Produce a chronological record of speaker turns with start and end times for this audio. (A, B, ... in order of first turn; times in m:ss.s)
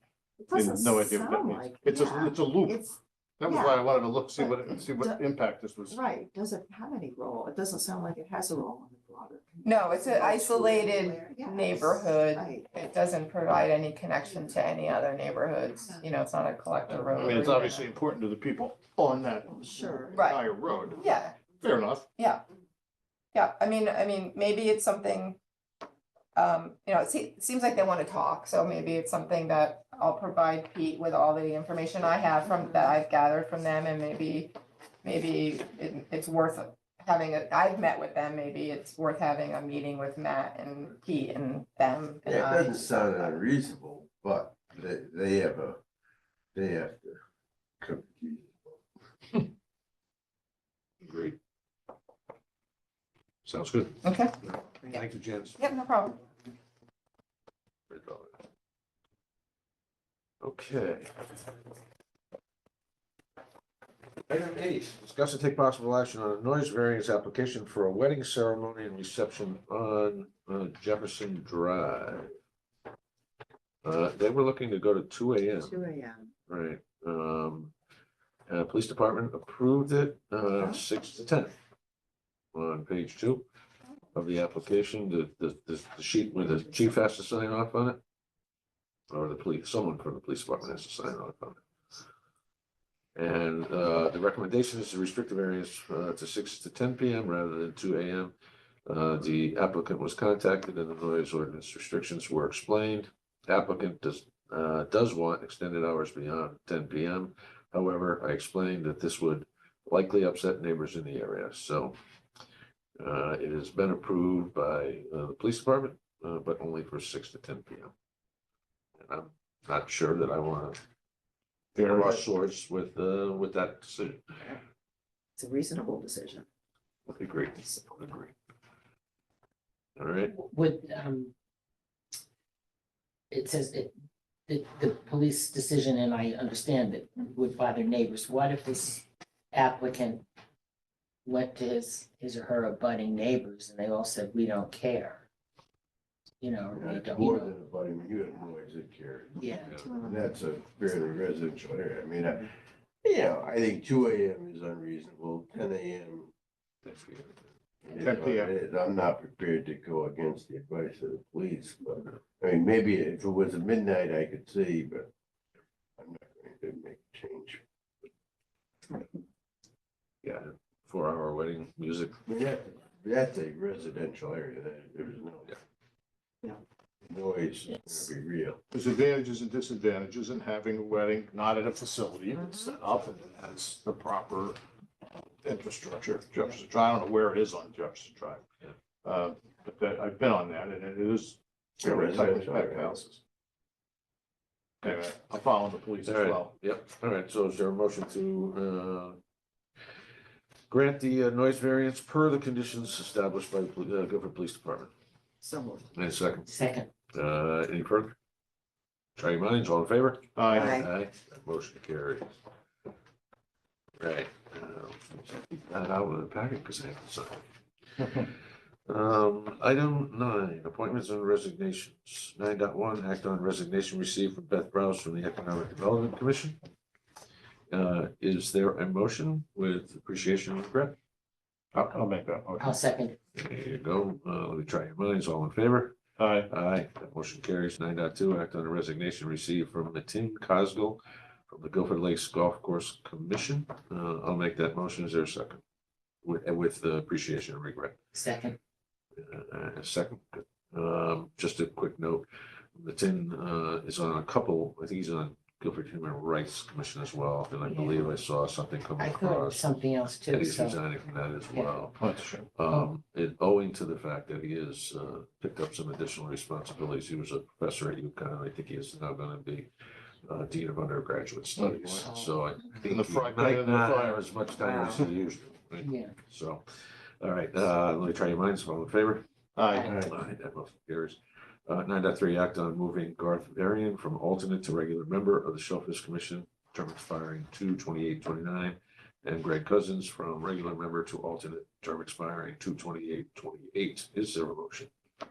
0:00.4-0:03.8 A
0:00.5-0:06.0 B
0:04.4-0:05.2 A
0:05.9-0:12.7 A
0:09.6-0:17.9 C
0:15.8-0:16.1 A
0:17.1-0:22.1 B
0:19.6-0:20.3 A
0:20.1-0:21.4 C
0:22.2-0:22.4 C
0:23.3-0:25.4 C
0:26.4-0:43.4 C
0:42.2-0:45.8 D
0:46.5-0:47.2 D
0:47.8-0:48.7 D
0:51.0-0:51.4 E
0:53.4-0:54.1 E
0:54.0-0:54.3 C
0:54.7-0:55.7 E
0:55.6-0:56.2 C
0:57.9-0:58.4 E
1:00.4-1:01.1 E
1:04.3-1:12.3 E
1:13.8-1:15.8 E
1:15.6-1:16.3 A
1:16.5-1:17.7 E
1:18.5-1:21.5 E
1:22.5-1:23.5 E
1:24.1-1:28.0 E
1:29.1-1:31.6 E
1:33.2-1:38.4 E
1:38.9-1:52.0 E
1:53.0-1:57.9 E
1:59.0-2:00.8 E
2:01.8-2:04.2 E
2:01.8-2:02.2 B
2:05.4-2:06.5 A
2:07.1-2:08.3 E
2:10.0-2:10.3 E
2:10.3-2:11.3 F
2:13.3-2:13.9 F
2:14.5-2:20.2 F
2:21.3-2:25.2 F
2:26.4-2:27.5 F
2:26.7-2:29.5 D
2:28.2-2:28.5 A
2:29.4-2:29.7 F
2:29.4-2:30.4 A
2:29.5-2:30.1 E
2:30.0-2:32.5 D
2:33.0-2:36.3 D
2:36.8-2:37.4 E
2:37.8-2:45.1 D
2:38.0-2:38.5 B
2:46.0-2:47.6 D
2:50.2-2:52.2 E
2:52.3-2:55.6 D
2:57.1-2:58.6 D
2:58.7-3:04.6 B
3:05.4-3:08.4 B
3:09.0-3:13.2 B
3:11.8-3:13.0 D
3:14.8-3:16.6 B
3:16.0-3:19.2 E
3:20.7-3:24.9 E
3:25.4-3:25.9 A
3:25.9-3:26.5 E
3:26.5-3:26.9 F
3:27.1-3:28.1 E
3:29.2-3:32.3 E
3:30.4-3:30.8 B
3:30.5-3:30.9 A
3:34.0-3:37.4 E
3:38.0-3:38.3 E
3:38.9-3:46.6 E
3:47.7-3:51.0 E
3:51.7-3:52.8 B
3:52.6-3:53.2 F
3:53.4-4:05.6 E
3:56.2-3:56.5 B
4:06.2-4:08.0 E
4:08.1-4:08.6 F
4:09.2-4:22.0 E
4:17.6-4:18.1 F
4:19.0-4:21.9 F
4:22.0-4:22.5 B
4:22.5-4:29.7 E
4:22.6-4:22.9 F
4:30.3-4:36.6 E
4:31.6-4:32.0 B
4:32.0-4:32.3 F
4:32.8-4:34.2 B
4:34.6-4:35.0 A
4:35.8-4:36.2 F
4:37.2-4:39.2 E
4:39.6-4:39.9 B
4:39.7-4:40.0 F
4:39.8-4:40.1 D
4:40.0-4:54.9 E